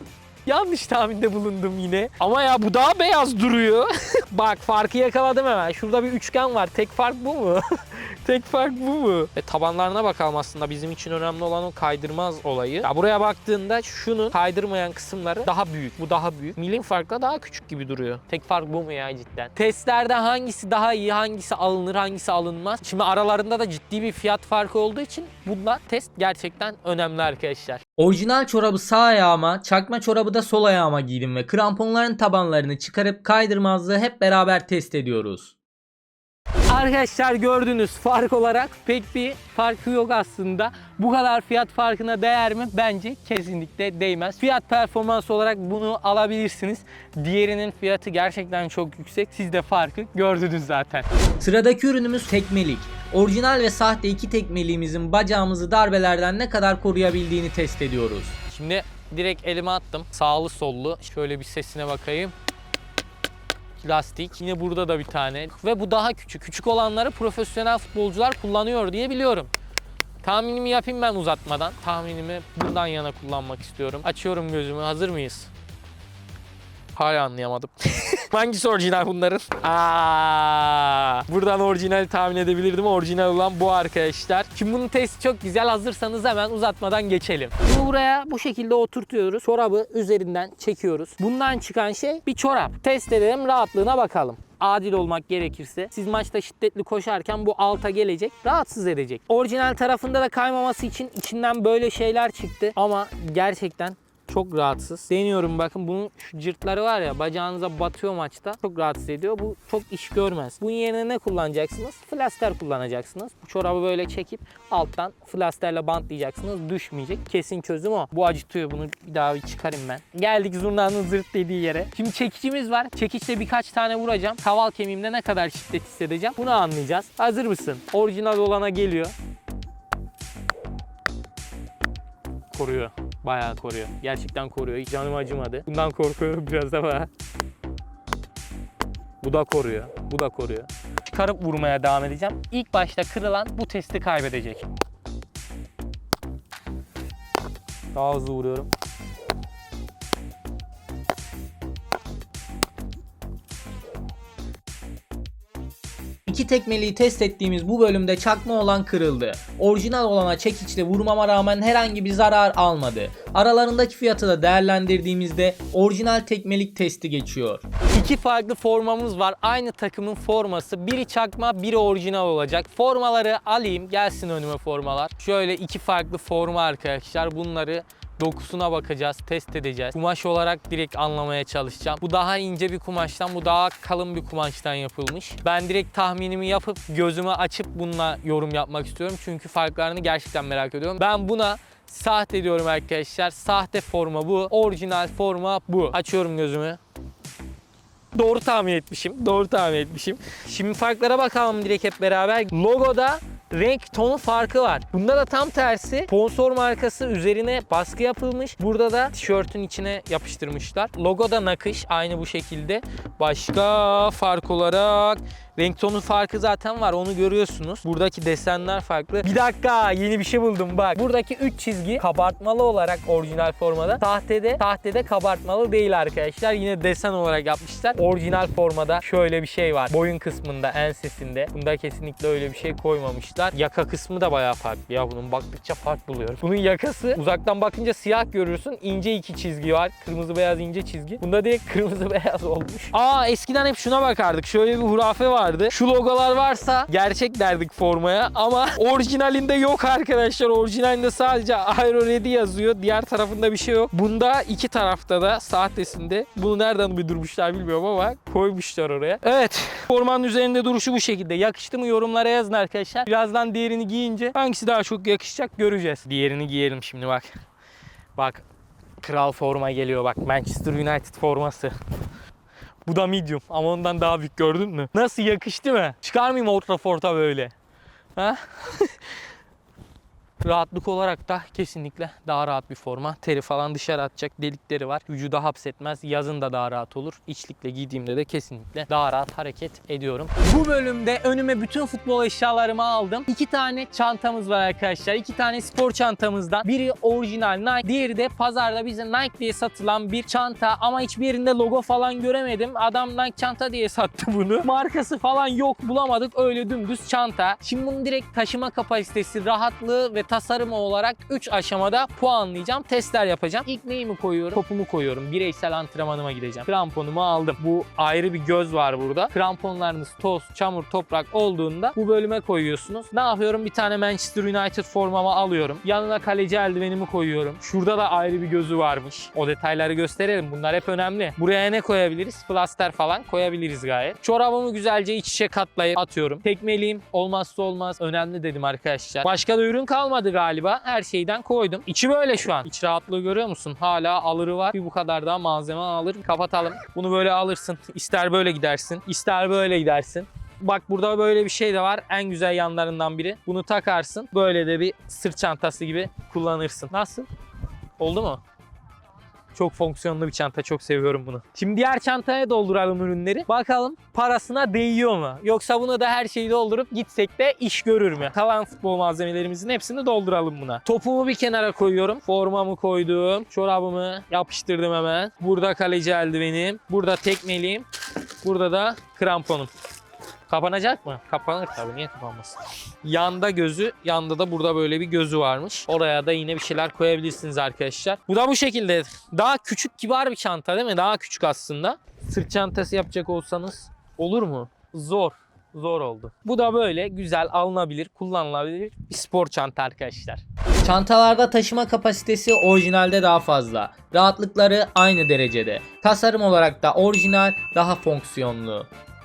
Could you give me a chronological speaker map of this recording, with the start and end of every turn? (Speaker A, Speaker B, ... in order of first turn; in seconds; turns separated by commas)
Speaker A: 0.4-27.8, Speaker B: 19.2-19.5, Speaker B: 27.9-35.5, Speaker A: 36.7-51.0, Speaker B: 40.7-41.0, Speaker B: 41.6-42.5, Speaker B: 43.1-46.8, Speaker B: 47.4-48.1, Speaker B: 48.9-50.6, Speaker B: 51.4-62.0, Speaker A: 58.5-62.3, Speaker B: 63.8-64.2, Speaker A: 63.9-69.5, Speaker B: 65.1-66.4, Speaker A: 70.2-75.5, Speaker A: 77.0-129.1, Speaker A: 132.5-137.1, Speaker A: 139.2-144.6, Speaker A: 147.9-148.7, Speaker B: 156.2-167.7, Speaker A: 167.9-196.8, Speaker A: 198.1-238.2, Speaker B: 205.8-206.1, Speaker B: 208.5-209.0, Speaker B: 220.6-221.1, Speaker B: 222.3-223.1, Speaker B: 224.5-224.8, Speaker B: 228.6-229.9, Speaker B: 237.1-240.0, Speaker A: 238.8-242.1, Speaker B: 241.0-241.3, Speaker B: 242.0-243.0, Speaker A: 243.0-267.3, Speaker A: 268.2-268.4, Speaker A: 269.0-271.7, Speaker A: 272.9-277.4, Speaker B: 274.6-274.9, Speaker B: 275.5-277.5, Speaker A: 278.2-278.9, Speaker A: 280.4-357.3, Speaker A: 358.0-358.4, Speaker A: 359.6-377.9, Speaker A: 378.4-379.7, Speaker A: 380.5-400.4, Speaker B: 393.9-394.2, Speaker B: 400.8-408.9